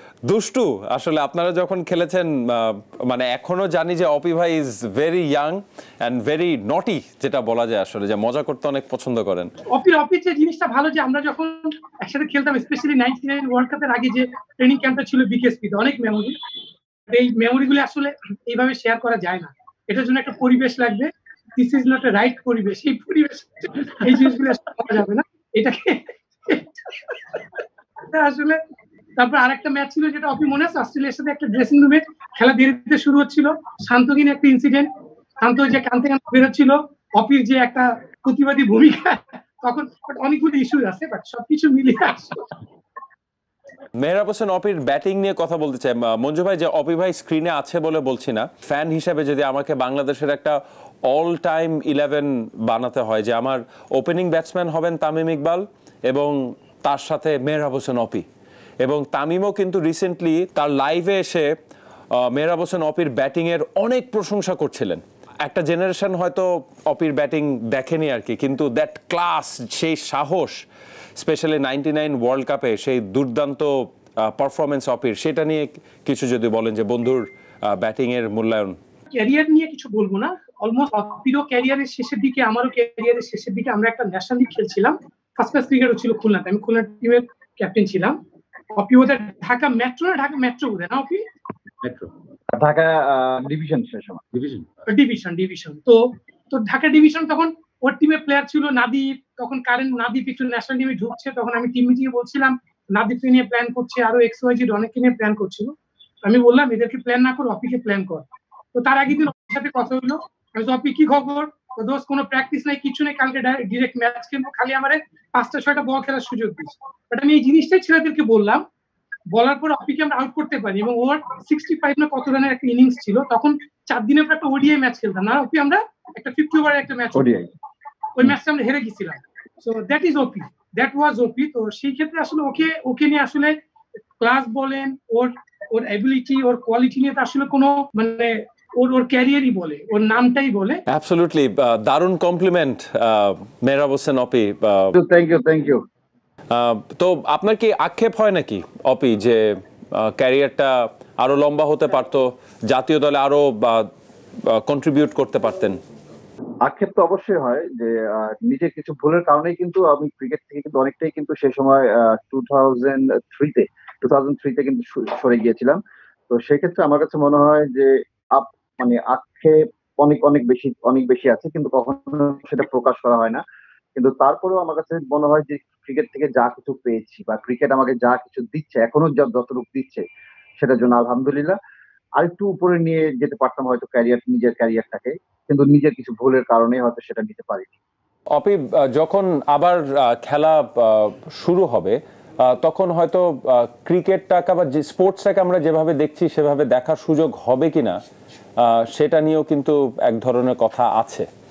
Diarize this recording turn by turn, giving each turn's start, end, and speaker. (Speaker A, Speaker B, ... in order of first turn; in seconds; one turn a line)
Speaker A: 0.2-9.5
Speaker B: 9.7-16.4
Speaker B: 17.1-28.6
Speaker B: 29.2-34.9
Speaker B: 35.4-42.5
Speaker A: 44.0-58.3
Speaker A: 58.8-61.5
Speaker A: 62.1-70.7
Speaker A: 71.2-78.8
Speaker B: 79.1-88.2
Speaker B: 88.7-91.2
Speaker A: 91.8-92.1
Speaker C: 92.5-94.2
Speaker A: 94.3-94.8
Speaker B: 94.9-96.0
Speaker B: 96.5-105.7
Speaker B: 106.3-118.6
Speaker B: 119.3-127.3
Speaker C: 127.2-127.5
Speaker B: 128.2-133.5
Speaker B: 134.2-140.8
Speaker A: 140.9-145.0
Speaker C: 144.9-145.8
Speaker A: 146.5-153.9
Speaker A: 154.4-155.8
Speaker C: 156.7-165.8
Speaker C: 166.3-173.4
Speaker C: 174.0-180.0
Speaker C: 180.6-181.6
Speaker C: 182.2-187.7
Speaker A: 188.3-198.0
Speaker A: 198.6-201.3